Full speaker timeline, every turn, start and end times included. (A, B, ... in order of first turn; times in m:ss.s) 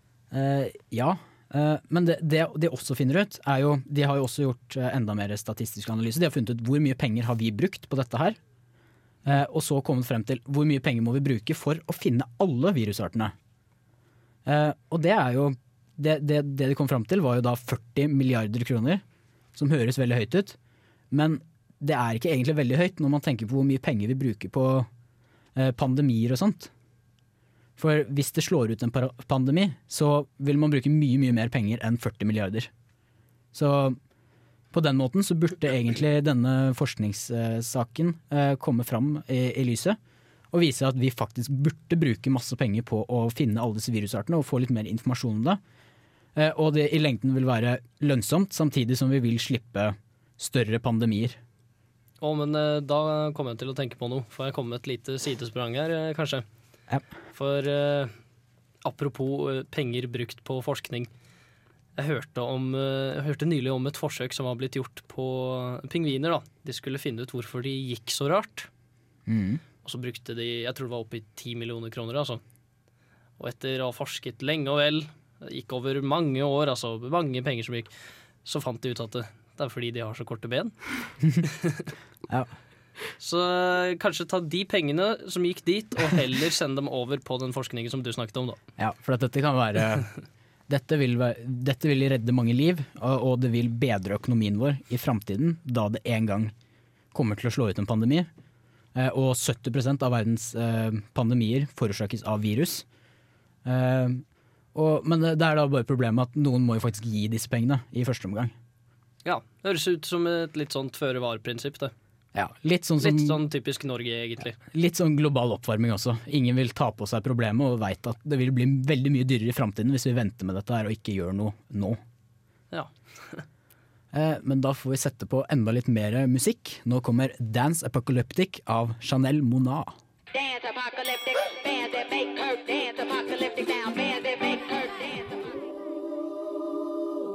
0:00.3-0:08.4 A
0:09.2-0:13.3 A
0:14.4-0:19.0 A
0:19.5-0:20.6 A
0:21.1-0:24.9 A
0:25.5-0:26.7 A
0:27.8-0:32.7 A
0:33.5-0:34.0 A
0:34.7-0:40.0 A
0:40.5-0:45.6 A
0:46.3-0:51.4 A
0:52.2-0:56.4 B
0:57.3-0:58.1 B
0:58.8-1:01.1 B
1:02.0-1:08.7 B
1:09.3-1:09.6 A
1:09.8-1:12.4 B
1:13.4-1:17.9 B
1:18.4-1:20.8 B
1:21.4-1:21.9 B
1:23.2-1:28.6 B
1:28.8-1:30.1 A
1:30.7-1:36.5 A
1:37.1-1:38.3 A
1:38.9-1:42.8 A
1:43.6-1:48.5 A
1:49.2-1:51.9 B
1:52.3-1:53.4 A
1:53.0-1:54.6 B
1:54.6-2:02.0 A
2:02.7-2:03.4 B
2:04.1-2:09.9 A
2:10.3-2:15.6 C